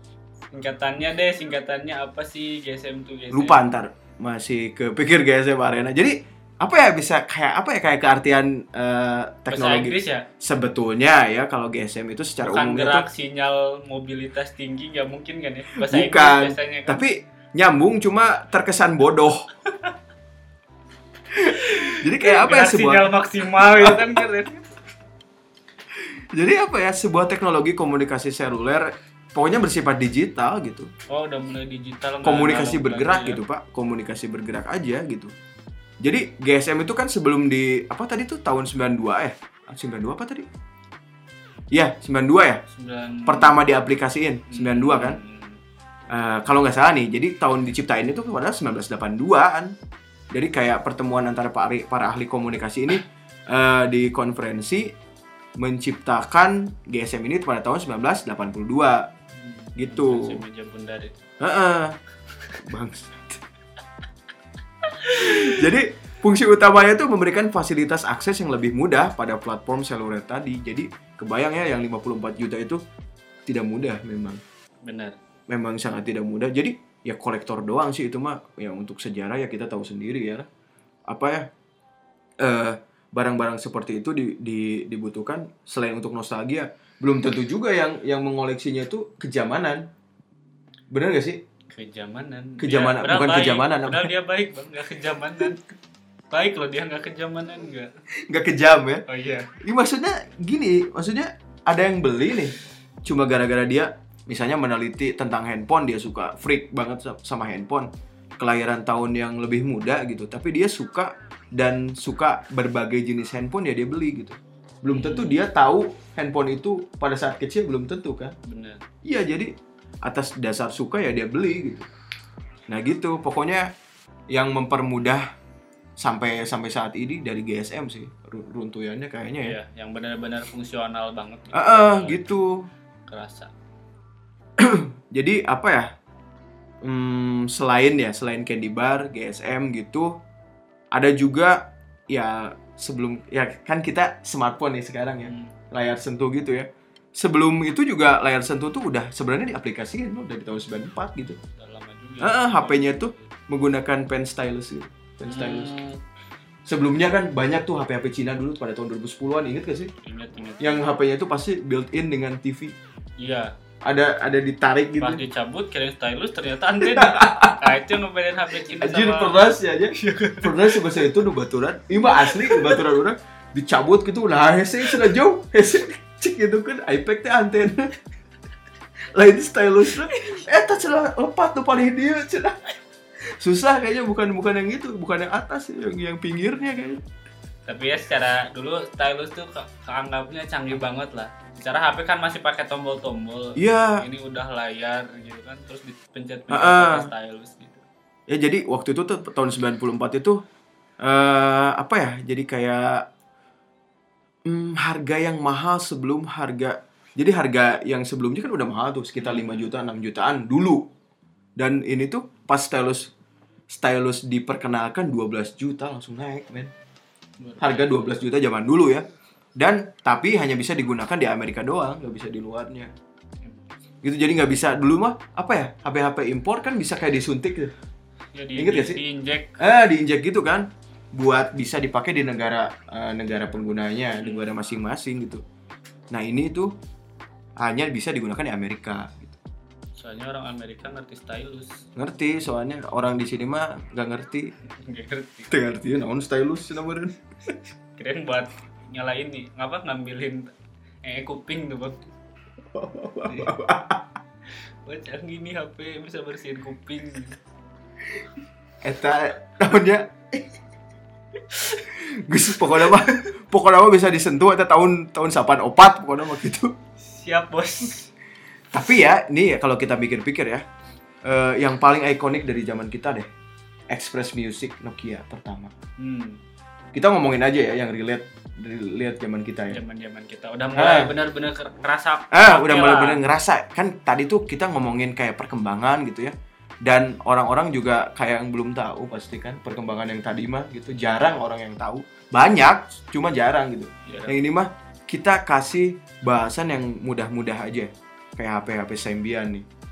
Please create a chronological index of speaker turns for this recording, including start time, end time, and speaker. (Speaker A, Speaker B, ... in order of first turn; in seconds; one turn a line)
Speaker A: 0.5-3.7
Speaker B: 3.3-13.1
Speaker A: 9.5-10.3
Speaker A: 12.4-17.0
Speaker B: 15.8-19.5
Speaker B: 21.3-24.3
Speaker A: 21.4-24.7
Speaker B: 26.0-30.9
Speaker A: 31.1-33.4
Speaker B: 32.2-35.3
Speaker B: 36.0-40.5
Speaker B: 41.7-42.6
Speaker A: 42.7-43.6
Speaker B: 43.3-45.2
Speaker A: 44.5-45.6
Speaker B: 46.1-49.8
Speaker B: 50.3-54.9
Speaker B: 55.6-59.1
Speaker A: 59.4-61.2
Speaker B: 59.8-60.4
Speaker B: 61.4-62.0
Speaker B: 62.6-63.4
Speaker A: 64.8-65.6
Speaker B: 65.1-72.8
Speaker B: 73.5-74.4
Speaker A: 74.8-75.2
Speaker B: 75.5-80.5
Speaker B: 81.1-81.5
Speaker B: 82.4-89.9
Speaker B: 90.9-91.4
Speaker A: 91.7-95.7
Speaker B: 92.6-94.1
Speaker A: 96.3-97.9
Speaker B: 98.2-99.0
Speaker A: 99.1-99.5
Speaker B: 99.6-118.3
Speaker A: 114.9-115.4
Speaker A: 118.5-118.8
Speaker B: 119.0-119.5
Speaker B: 120.0-121.9
Speaker B: 122.7-123.7
Speaker B: 124.3-125.2
Speaker B: 126.0-129.6
Speaker A: 129.4-132.3
Speaker B: 131.5-132.7
Speaker A: 133.1-133.5
Speaker B: 134.6-135.9
Speaker B: 136.8-140.2
Speaker B: 140.9-151.4
Speaker A: 145.2-145.6
Speaker A: 151.6-153.3
Speaker B: 152.2-155.7
Speaker A: 155.2-156.0
Speaker B: 156.7-159.9
Speaker A: 160.0-161.0
Speaker B: 160.6-162.8
Speaker A: 163.2-163.5
Speaker B: 163.8-165.2
Speaker A: 165.0-171.0
Speaker B: 166.8-167.7
Speaker B: 168.7-177.9
Speaker A: 172.0-172.9
Speaker B: 179.1-182.7
Speaker B: 183.3-187.0
Speaker A: 187.7-197.8
Speaker B: 193.6-194.0
Speaker B: 196.5-197.1
Speaker B: 198.3-200.4
Speaker B: 201.0-203.1
Speaker B: 204.5-210.9
Speaker A: 209.2-209.7
Speaker B: 211.6-213.1
Speaker B: 213.7-216.7
Speaker A: 217.4-218.1
Speaker B: 217.6-222.9
Speaker B: 224.0-227.7
Speaker A: 228.3-229.6
Speaker B: 228.6-229.0
Speaker B: 229.6-235.4
Speaker A: 234.2-234.5
Speaker B: 236.1-236.7
Speaker B: 237.6-239.4
Speaker A: 240.0-241.9
Speaker B: 242.0-244.5
Speaker A: 244.7-245.5
Speaker B: 245.5-247.6
Speaker A: 248.0-250.5
Speaker A: 251.0-252.1
Speaker B: 252.7-254.1
Speaker A: 254.9-257.4
Speaker B: 258.8-260.5
Speaker A: 261.5-261.8
Speaker B: 261.9-266.7
Speaker A: 267.0-268.1
Speaker B: 268.7-270.6
Speaker B: 271.2-273.3
Speaker B: 273.9-275.7
Speaker A: 276.0-276.4
Speaker B: 276.9-279.8
Speaker A: 279.7-283.2
Speaker B: 280.8-281.1
Speaker B: 282.3-299.7
Speaker A: 294.1-294.4